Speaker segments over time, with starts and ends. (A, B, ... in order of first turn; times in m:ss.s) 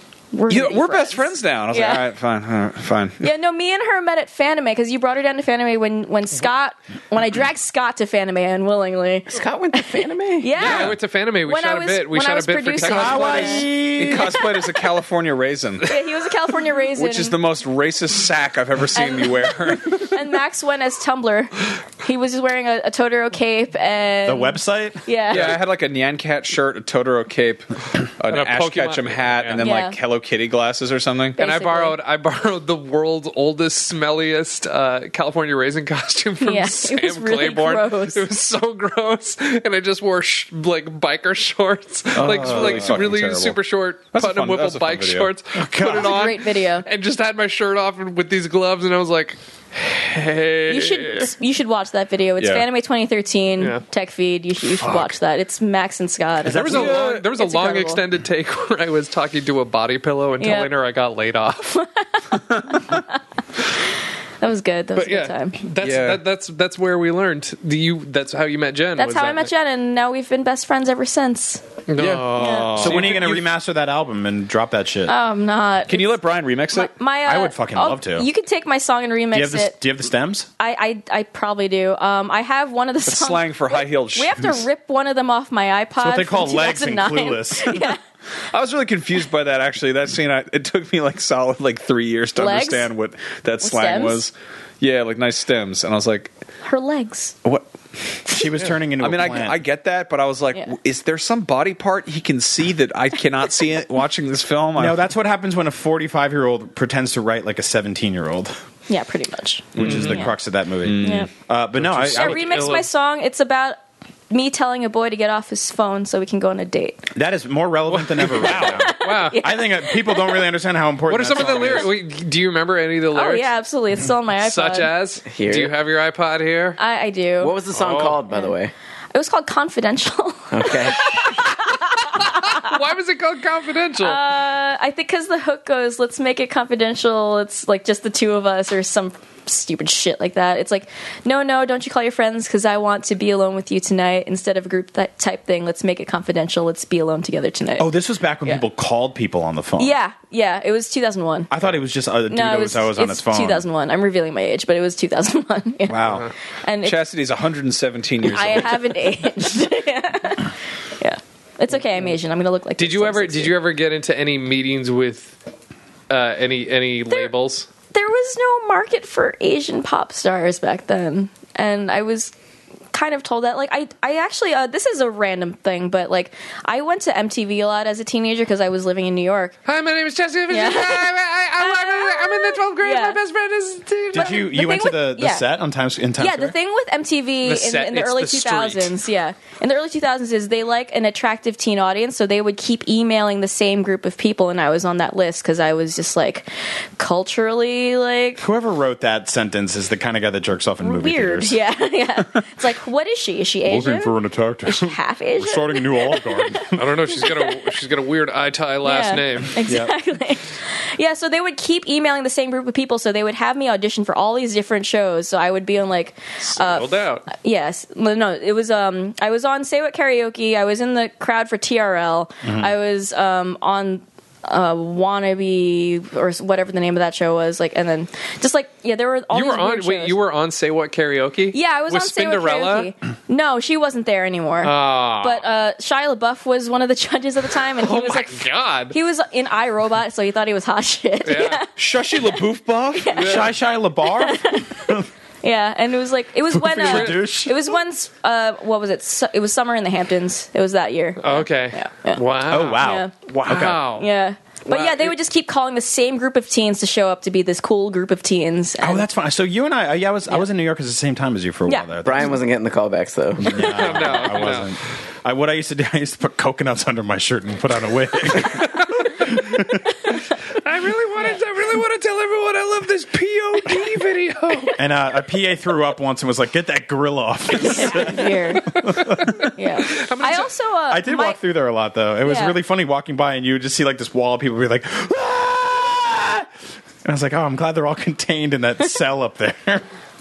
0:00.3-0:02.0 A
0:00.5-0:03.3 B
0:03.2-0:09.3 A
0:09.3-0:10.5 C
0:10.4-0:14.8 A
0:10.6-0:13.6 D
0:10.6-0:10.9 B
0:12.8-0:14.4 E
0:14.0-0:15.9 B
0:15.9-0:17.4 A
0:17.0-0:20.2 B
0:19.0-0:25.6 A
0:24.2-0:25.0 E
0:25.3-0:31.4 B
0:28.3-0:29.6 D
0:29.6-0:30.0 A
0:31.4-0:32.0 A
0:31.4-0:51.3 D
0:36.4-0:38.3 A
0:42.2-0:43.1 E
0:42.2-0:43.6 B
0:44.1-0:45.3 B
0:45.6-0:46.2 E
0:45.8-0:46.9 A
0:50.7-0:58.0 A
0:52.4-0:52.6 B
0:53.6-0:53.8 D
0:54.8-0:55.1 D
0:56.5-1:01.8 D
0:56.5-0:57.3 B
1:00.4-1:00.7 A
1:01.7-1:03.2 A
1:02.5-1:02.8 B
1:04.4-1:05.6 A
1:05.0-1:09.5 D
1:05.8-1:06.2 B
1:09.0-1:11.6 A
1:11.9-1:13.4 D
1:12.0-1:13.4 B
1:12.4-1:12.8 A
1:12.8-1:15.2 E
1:15.1-1:16.2 A
1:15.9-1:16.9 B
1:16.7-1:19.8 A
1:17.3-1:18.3 E
1:19.3-1:20.5 E
1:20.6-1:28.0 A
1:23.0-1:24.6 B
1:26.0-1:27.9 E
1:28.5-1:36.3 B
1:32.4-1:32.9 A
1:33.6-1:34.2 A
1:36.6-1:37.4 A
1:38.3-1:39.6 E
1:39.0-1:45.0 B
1:44.8-1:48.6 E
1:48.9-1:50.3 A
1:49.8-1:50.3 B
1:49.8-1:52.4 E
1:50.8-1:52.2 B
1:51.0-1:51.3 A
1:52.0-1:52.9 D
1:52.2-1:53.8 A
1:54.3-1:57.1 A
1:57.1-2:01.9 E
1:58.2-1:59.4 D
1:58.6-2:00.5 A
2:01.1-2:03.5 D
2:03.1-2:04.9 A
2:04.4-2:06.8 D
2:05.3-2:05.7 C
2:06.8-2:07.6 A
2:07.4-2:08.7 C
2:07.7-2:08.2 D
2:08.3-2:08.6 A
2:09.1-2:12.8 A
2:10.5-2:11.3 C
2:12.2-2:14.2 D
2:14.0-2:27.9 A
2:27.8-2:30.0 E
2:29.8-2:31.5 A
2:31.5-2:33.6 E
2:32.3-2:37.0 A
2:35.9-2:36.3 B
2:36.1-2:36.3 D
2:36.8-2:38.8 B
2:38.2-2:43.6 A
2:42.8-2:45.4 D
2:46.1-2:47.7 D
2:47.9-2:52.3 A
2:52.9-2:59.6 A
2:59.7-3:04.5 D
3:00.5-3:03.2 A
3:04.1-3:06.6 E
3:04.2-3:05.5 A
3:06.2-3:16.5 A
3:07.4-3:08.9 D
3:17.0-3:18.4 A
3:18.4-3:21.6 E
3:20.8-3:27.7 A
3:23.6-3:26.9 E
3:26.7-3:29.6 D
3:28.8-3:50.2 A
3:29.7-3:29.9 E
3:36.5-3:37.3 D
3:42.4-3:42.7 E
3:49.3-3:52.9 D
3:51.5-4:03.5 A
3:54.6-3:55.4 D
3:57.8-3:59.0 D
4:01.2-4:01.6 D
4:01.8-4:03.1 B
4:03.1-4:03.5 D
4:03.2-4:05.1 E
4:04.1-4:19.1 A
4:06.5-4:07.7 E
4:06.8-4:07.2 D
4:11.2-4:14.1 D
4:12.5-4:13.9 E
4:14.7-4:15.2 D
4:18.8-4:22.4 E
4:22.0-4:24.0 C
4:23.4-4:29.8 E
4:23.5-4:24.8 D
4:30.6-4:34.7 D
4:34.8-4:39.4 E
4:37.6-4:38.8 A
4:39.0-4:40.5 D
4:39.6-4:41.4 A
4:40.9-4:46.5 E
4:42.2-4:42.6 A
4:47.0-4:49.8 E